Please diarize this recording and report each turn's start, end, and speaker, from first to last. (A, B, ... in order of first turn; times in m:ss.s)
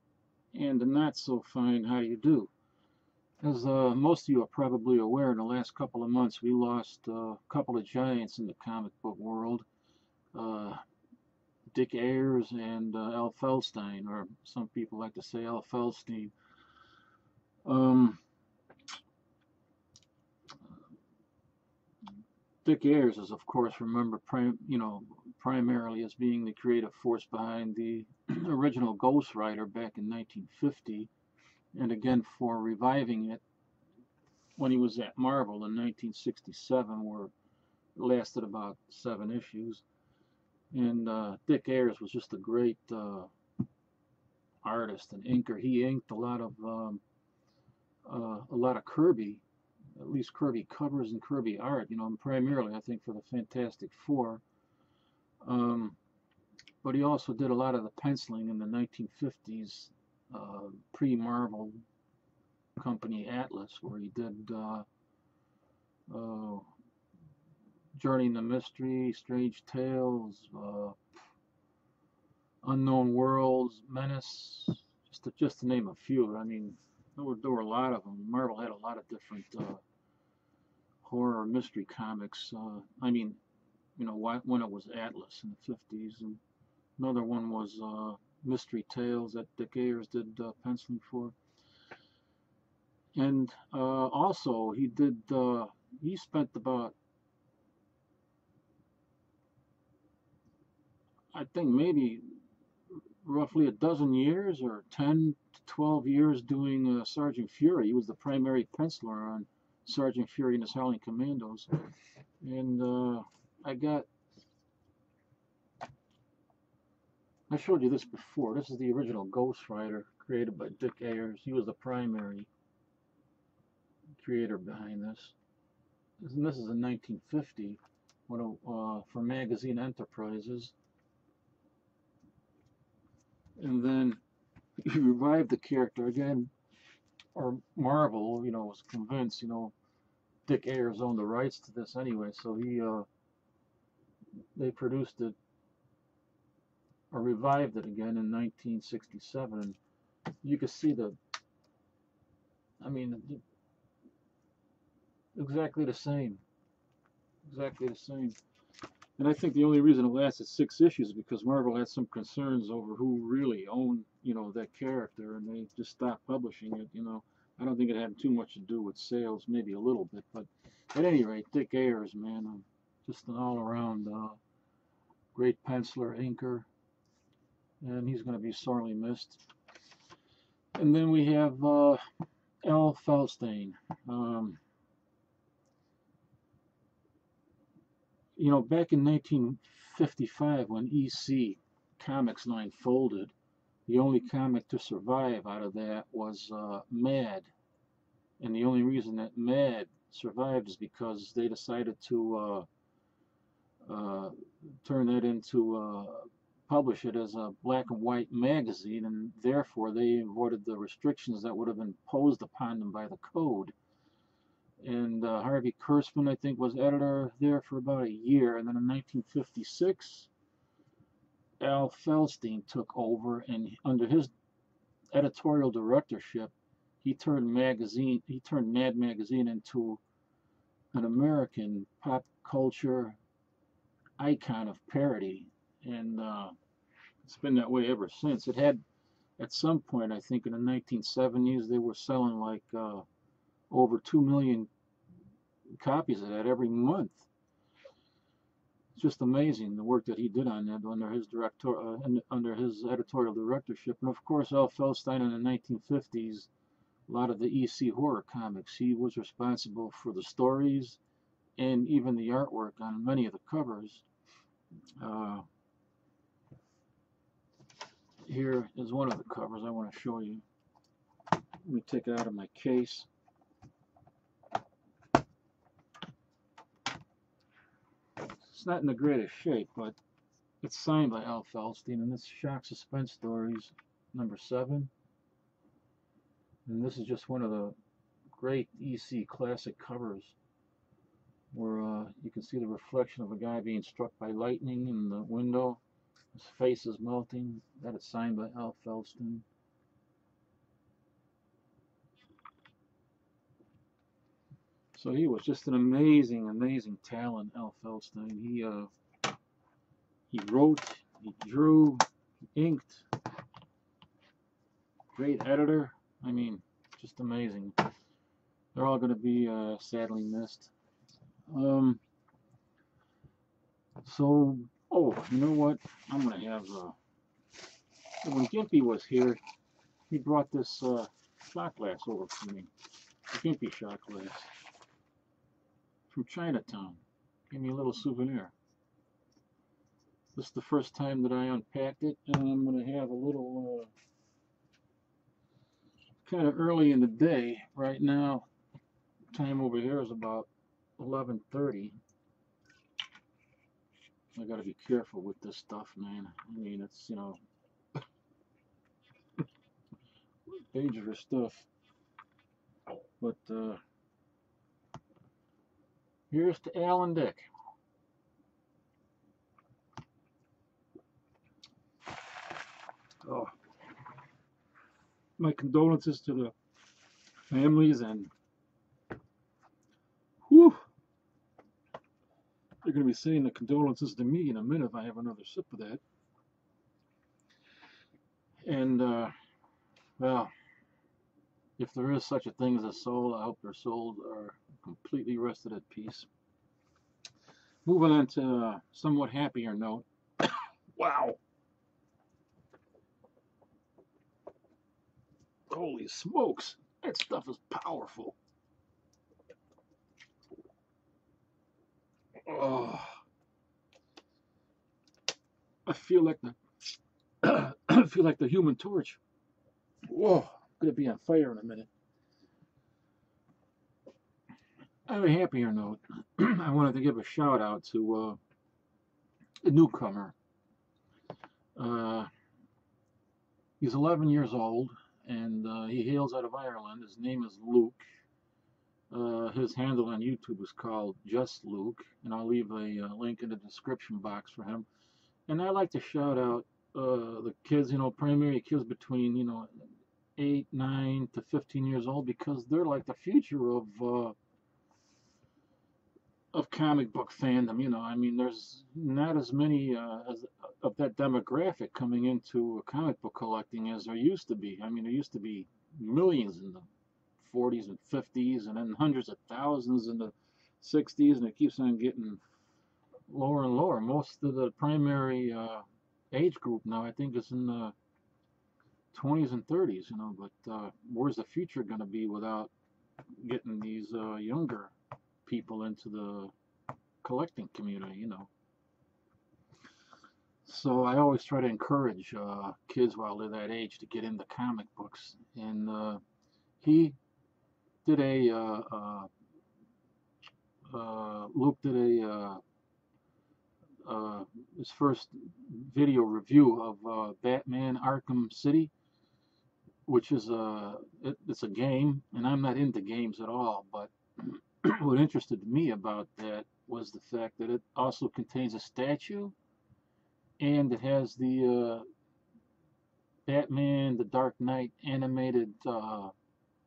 0:00.5-0:02.5 A
0:03.4-0:09.7 A
0:10.3-0:10.8 A
0:11.7-0:16.3 A
0:17.6-0:18.2 A
0:22.6-0:31.1 A
0:31.7-0:33.4 A
0:34.6-0:37.3 A
0:38.0-0:39.8 A
0:40.7-0:43.3 A
0:44.6-0:47.0 A
0:48.0-0:49.4 A
0:50.0-0:54.4 A
0:55.4-0:56.0 A
0:56.8-1:01.8 A
1:02.8-1:04.9 A
1:06.1-1:06.7 A
1:08.0-1:11.0 A
1:12.6-1:19.8 A
1:21.0-1:23.4 A
1:24.0-1:26.4 A
1:27.0-1:31.4 A
1:33.2-1:37.0 A
1:41.3-1:42.3 A
1:43.2-1:51.9 A
1:52.4-1:54.1 A
1:57.5-2:02.5 A
2:04.2-2:05.4 A
2:06.2-2:10.7 A
2:13.6-2:14.2 A
2:14.8-2:16.5 A
2:17.4-2:19.7 A
2:20.5-2:23.1 A
2:24.6-2:25.4 A
2:27.1-2:29.8 A
2:30.4-2:31.2 A
2:32.8-2:33.4 A
2:35.4-2:36.4 A
2:37.4-2:38.4 A
2:39.2-2:54.4 A
2:55.4-2:56.7 A
2:57.8-2:59.5 A
3:00.8-3:02.0 A
3:02.6-3:04.6 A
3:08.4-3:13.3 A
3:13.9-3:17.5 A
3:18.4-3:22.7 A
3:23.8-3:33.7 A
3:34.8-3:40.3 A
3:41.6-3:44.3 A
3:45.1-3:50.0 A
3:50.9-3:53.2 A
3:54.2-3:56.6 A
3:57.2-3:58.8 A
3:59.4-4:03.0 A
4:03.7-4:04.7 A
4:05.7-4:07.3 A
4:09.0-4:16.5 A
4:17.1-4:21.0 A
4:21.6-4:24.0 A
4:25.0-4:25.5 A
4:28.2-4:30.4 A
4:31.6-4:33.1 A
4:38.4-4:40.0 A
4:40.6-4:44.9 A
4:46.7-4:47.8 A
4:48.3-4:50.4 A
4:51.5-4:55.8 A
4:56.3-4:59.4 A
5:04.9-5:08.9 A
5:10.3-5:12.0 A
5:12.6-5:13.1 A
5:15.1-5:17.9 A
5:18.7-5:20.7 A
5:21.5-5:22.0 A
5:24.0-5:27.0 A
5:28.2-5:29.4 A
5:30.1-5:32.7 A
5:33.3-5:34.5 A
5:36.1-5:38.5 A
5:40.4-5:43.9 A
5:46.2-5:48.5 A
5:49.3-5:52.0 A
5:54.3-5:57.4 A
6:00.5-6:01.7 A
6:03.2-6:03.8 A
6:06.3-6:07.5 A
6:13.2-6:13.5 A
6:15.4-6:16.5 A
6:17.5-6:18.3 A
6:20.5-6:20.8 A
6:22.8-6:26.0 A
6:28.6-6:29.3 A
6:30.2-6:30.5 A
6:31.8-6:36.3 A
6:37.8-6:41.4 A
6:45.7-6:48.4 A
6:52.4-6:53.2 A
6:55.9-6:56.6 A
6:57.4-6:59.2 A
7:00.1-7:01.9 A
7:05.1-7:08.4 A
7:09.6-7:10.4 A
7:11.8-7:12.3 A
7:13.8-7:18.0 A
7:19.1-7:24.9 A
7:25.5-7:34.4 A
7:36.5-7:46.9 A
7:47.4-7:52.4 A
7:53.3-7:57.9 A
7:59.1-8:02.7 A
8:03.4-8:04.9 A
8:05.5-8:06.5 A
8:07.2-8:08.5 A
8:10.6-8:16.2 A
8:16.8-8:17.2 A
8:18.0-8:19.3 A
8:20.9-8:22.6 A
8:24.0-8:28.9 A
8:30.1-8:39.6 A
8:40.6-8:42.1 A
8:43.5-8:46.3 A